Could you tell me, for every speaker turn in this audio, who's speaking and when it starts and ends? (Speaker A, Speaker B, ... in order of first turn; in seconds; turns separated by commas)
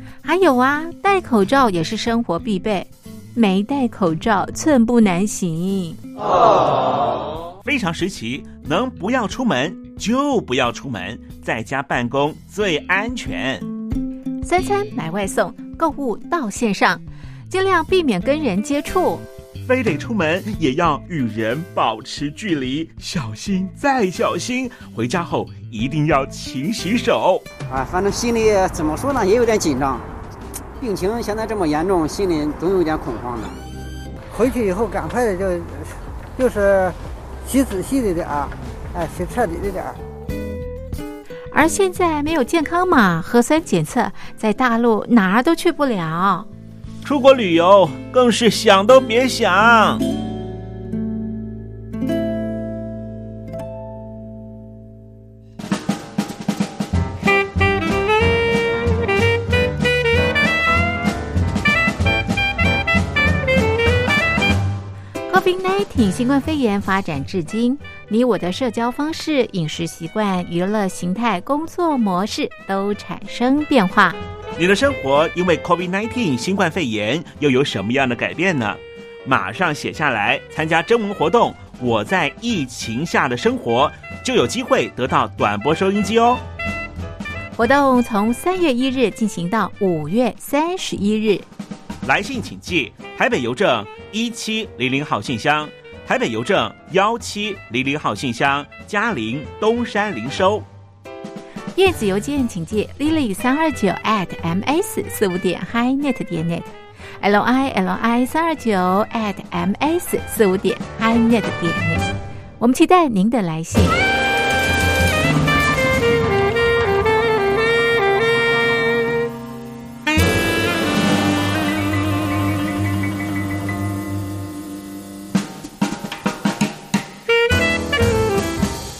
Speaker A: 0.2-6.0, Speaker B: 7.6-13.7, Speaker A: 14.4-19.2, Speaker B: 19.6-27.4, Speaker C: 27.7-30.1, Speaker C: 30.8-33.6, Speaker D: 34.3-40.0, Speaker A: 41.5-46.5, Speaker B: 47.0-50.0, Speaker A: 65.3-74.2, Speaker B: 74.6-86.4, Speaker A: 87.6-91.5, Speaker B: 92.0-100.7, Speaker A: 101.8-112.1, Speaker A: 112.6-114.0